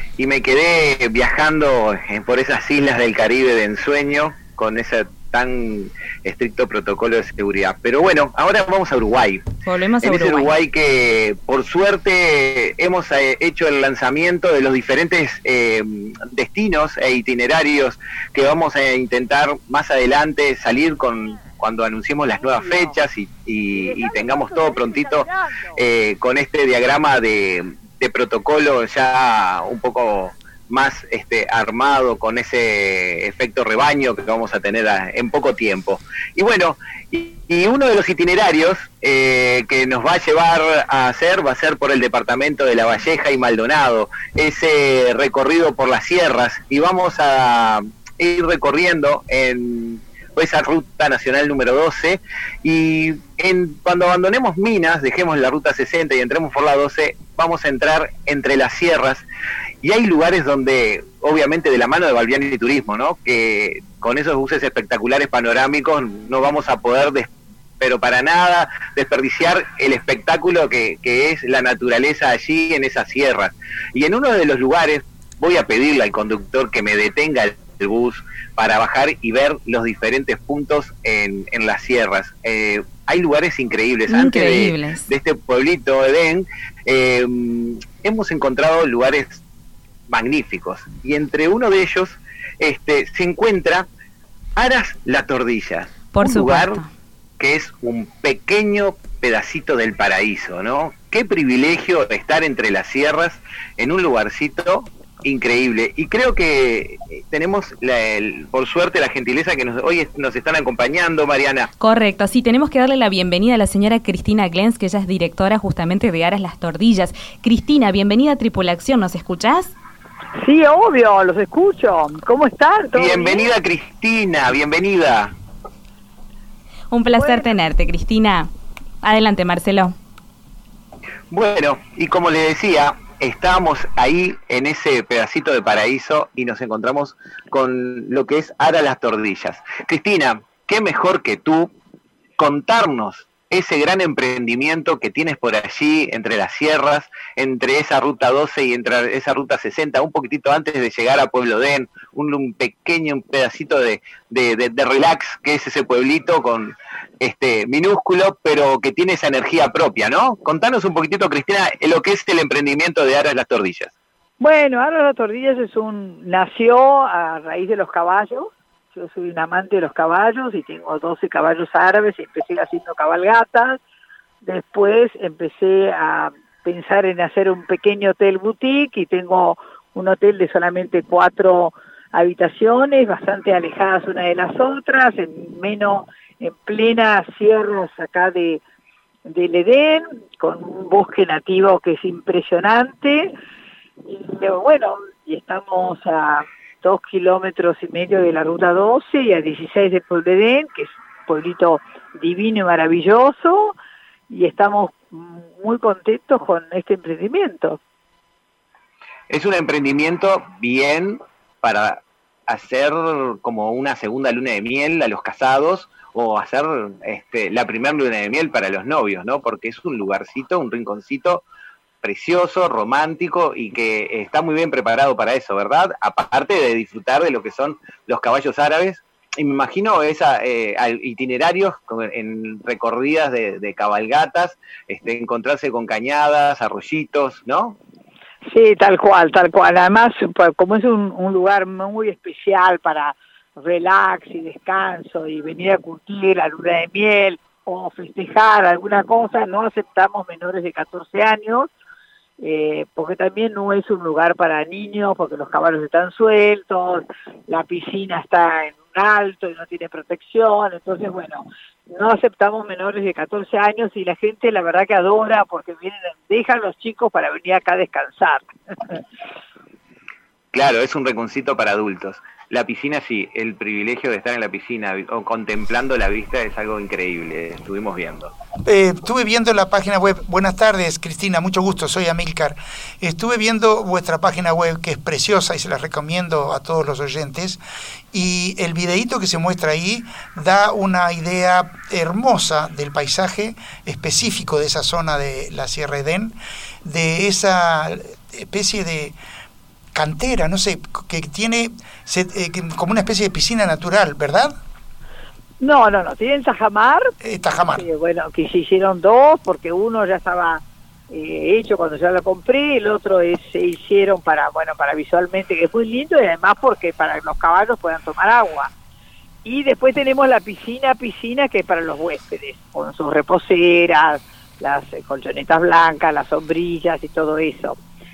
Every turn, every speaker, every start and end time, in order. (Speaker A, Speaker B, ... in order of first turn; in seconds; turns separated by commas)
Speaker A: 0.2-9.4, Speaker B: 9.7-10.5, Speaker A: 10.0-59.2, Speaker C: 22.4-22.7, Speaker C: 24.0-25.3, Speaker A: 59.8-89.4, Speaker B: 84.1-85.1, Speaker A: 90.1-93.9, Speaker A: 94.6-96.8, Speaker B: 96.1-96.9, Speaker A: 97.4-111.7, Speaker B: 111.8-119.8, Speaker C: 120.4-123.5, Speaker A: 122.9-125.4, Speaker B: 126.9-128.5, Speaker C: 127.2-127.5, Speaker B: 129.0-129.9, Speaker A: 131.3-141.7, Speaker A: 142.4-163.9, Speaker C: 164.4-173.8, Speaker C: 174.4-188.6, Speaker C: 189.3-193.3, Speaker C: 194.1-203.8, Speaker C: 204.3-207.8, Speaker A: 209.3-221.4, Speaker A: 222.0-237.8, Speaker C: 238.5-251.7, Speaker C: 252.4-269.0, Speaker A: 270.5-278.3, Speaker D: 278.6-287.6, Speaker D: 288.1-299.2, Speaker D: 299.9-304.6, Speaker C: 305.6-318.7, Speaker D: 307.2-307.9, Speaker C: 319.4-327.8